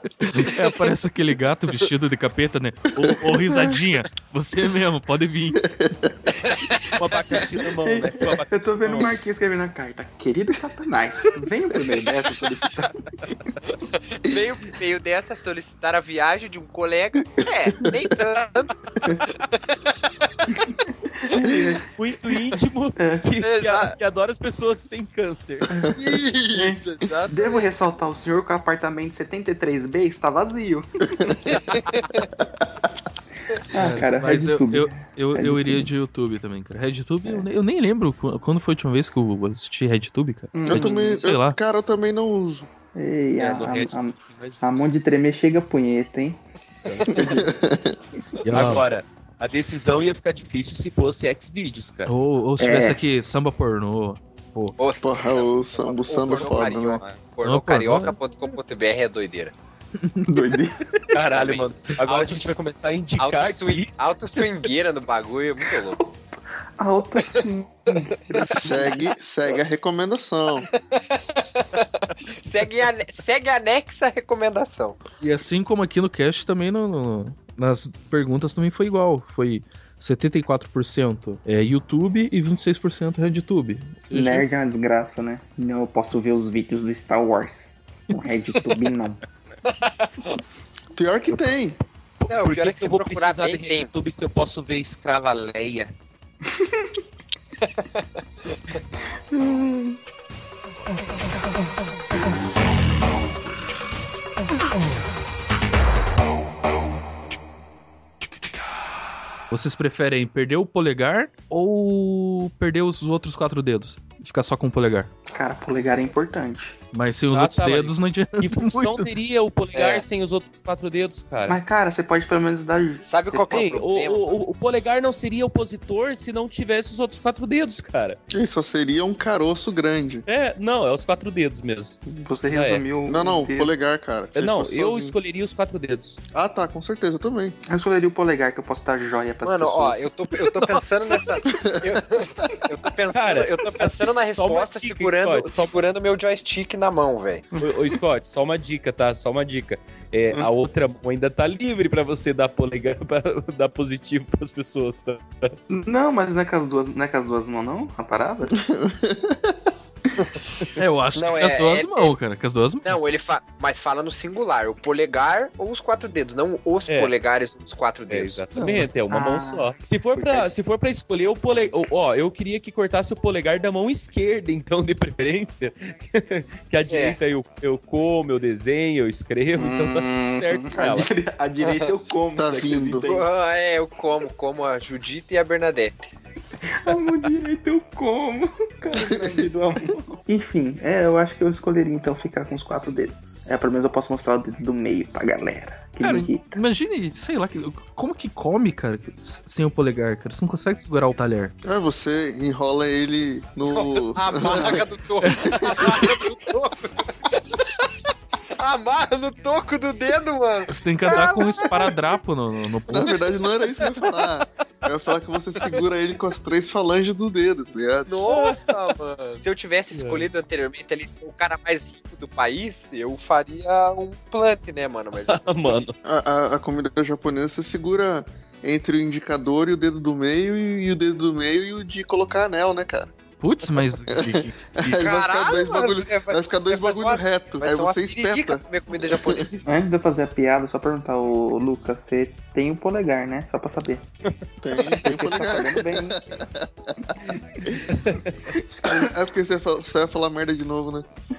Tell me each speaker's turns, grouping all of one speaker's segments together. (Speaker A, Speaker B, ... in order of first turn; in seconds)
Speaker A: 0.2-5.6, 33.7-41.6, 48.4-48.8, 52.1-54.8, 57.4-58.2, 75.2-84.5, 109.5-115.1, 116.9-119.1, 160.8-163.0, 196.0-201.5, 210.7-213.1, 233.4-235.0
Speaker B: 5.6-6.2, 40.6-42.7, 47.1-48.0, 54.9-57.0, 68.5-70.7, 91.0-91.8, 128.3-130.2, 133.1-135.1, 136.3-137.6, 141.5-142.0, 158.5-159.7, 182.3-183.1, 201.6-204.9, 205.4-205.8, 212.9-218.1, 226.0-233.1, 234.1-239.5, 244.6-247.1, 248.8-251.1
Speaker C: 6.4-6.9, 14.1-18.7, 23.4-23.9, 25.9-27.7, 31.5-32.2, 54.8-59.5, 61.3-62.5, 63.2-66.0, 70.7-75.0, 89.7-90.3, 92.3-93.9, 97.6-98.0, 119.7-120.0, 123.0-124.3, 139.4-147.4, 161.1-162.1, 162.8-168.4, 176.9-177.2, 181.6-181.9, 183.0-186.1, 203.7-207.9, 208.6-211.9, 218.1-225.8, 234.9-239.6
Speaker D: 7.0-9.1, 21.9-25.7, 43.4-44.7, 46.9-47.3, 48.5-52.1, 56.2-57.1, 61.1-63.9, 92.2-95.9, 117.3-121.6, 123.5-128.2, 130.3-132.8, 134.3-136.2, 143.1-145.7, 147.6-155.5, 168.1-181.1, 218.3-218.9, 219.9-220.3, 225.3-225.9, 247.9-248.4
Speaker E: 7.8-13.3, 21.2-21.8, 25.7-25.9, 26.5-31.4, 33.7-35.9, 40.5-41.2, 42.9-46.4, 47.1-47.5, 52.6-53.0, 60.2-60.8, 66.8-69.1, 84.1-89.2, 96.5-96.8, 99.3-100.0, 115.3-116.8, 121.5-123.4, 132.1-133.7, 137.7-140.1, 147.5-147.9, 155.7-158.5, 169.1-170.5, 179.5-183.3, 186.8-196.6, 239.7-244.0, 245.0-246.2